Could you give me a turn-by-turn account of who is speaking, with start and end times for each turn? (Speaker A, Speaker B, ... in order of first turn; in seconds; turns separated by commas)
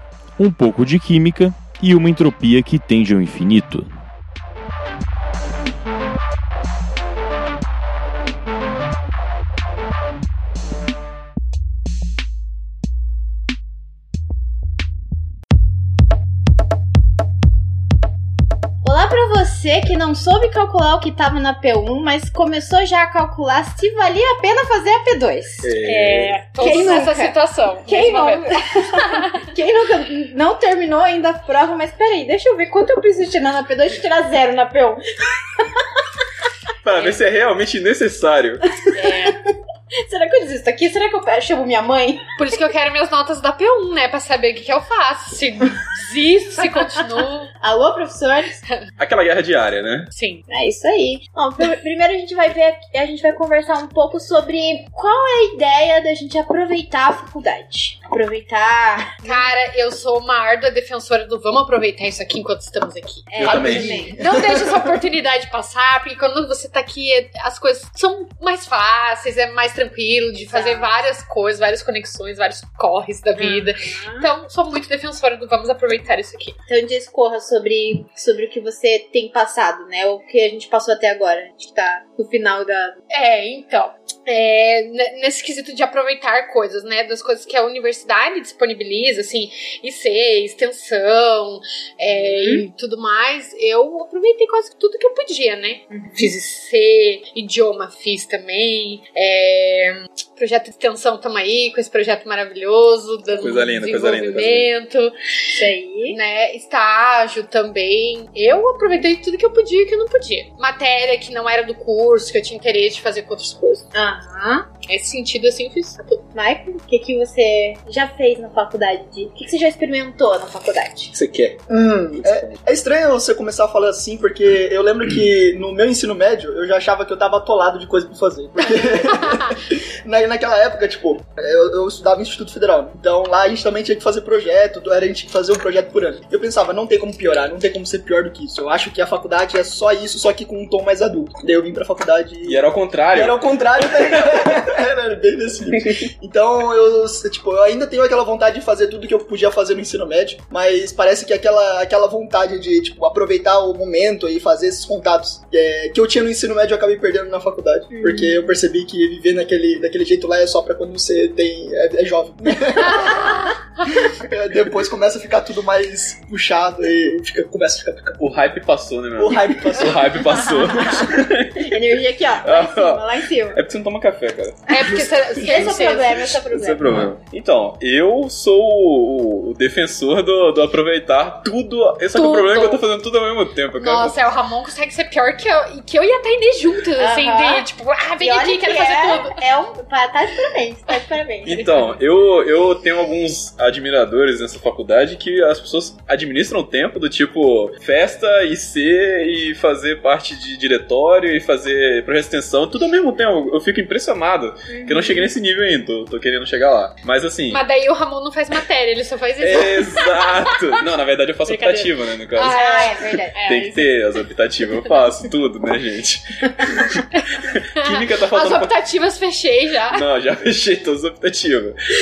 Speaker A: 0.4-3.9, Speaker B: 18.8-35.9, Speaker C: 25.6-26.4, Speaker D: 26.5-28.5, Speaker C: 36.8-38.6, Speaker D: 36.9-37.2, Speaker B: 38.7-39.5, Speaker D: 39.0-39.4, Speaker B: 40.0-42.3, Speaker D: 42.4-47.5, Speaker B: 47.6-48.6, Speaker C: 49.0-50.1, Speaker D: 50.1-50.5, Speaker B: 50.5-59.5, Speaker D: 59.2-76.6, Speaker B: 63.3-64.2, Speaker C: 63.4-64.0, Speaker E: 63.4-64.6, Speaker B: 70.4-71.0, Speaker B: 73.4-74.3, Speaker B: 76.7-83.0, Speaker D: 83.1-105.6, Speaker B: 92.2-92.7, Speaker B: 95.9-96.3, Speaker C: 103.4-104.7, Speaker B: 105.5-106.2, Speaker D: 106.1-113.9, Speaker B: 113.9-114.7, Speaker D: 114.9-116.2, Speaker B: 116.3-121.1, Speaker C: 121.1-121.7, Speaker E: 121.7-168.2, Speaker C: 122.2-122.7, Speaker D: 129.2-129.5, Speaker C: 142.4-143.4, Speaker B: 157.9-158.5, Speaker C: 168.2-171.8, Speaker E: 169.2-170.2, Speaker B: 171.6-173.6, Speaker C: 172.4-174.7, Speaker D: 174.7-176.2, Speaker E: 175.3-175.7, Speaker B: 175.4-176.9, Speaker C: 176.5-184.3, Speaker D: 182.1-182.8, Speaker D: 183.8-189.4, Speaker B: 187.0-187.7, Speaker B: 188.2-191.7, Speaker C: 191.4-207.6, Speaker B: 204.7-205.3, Speaker D: 207.5-210.6, Speaker C: 209.4-212.8, Speaker D: 211.4-213.9, Speaker B: 212.5-213.4, Speaker C: 213.4-218.8, Speaker D: 217.8-220.1, Speaker C: 219.9-221.8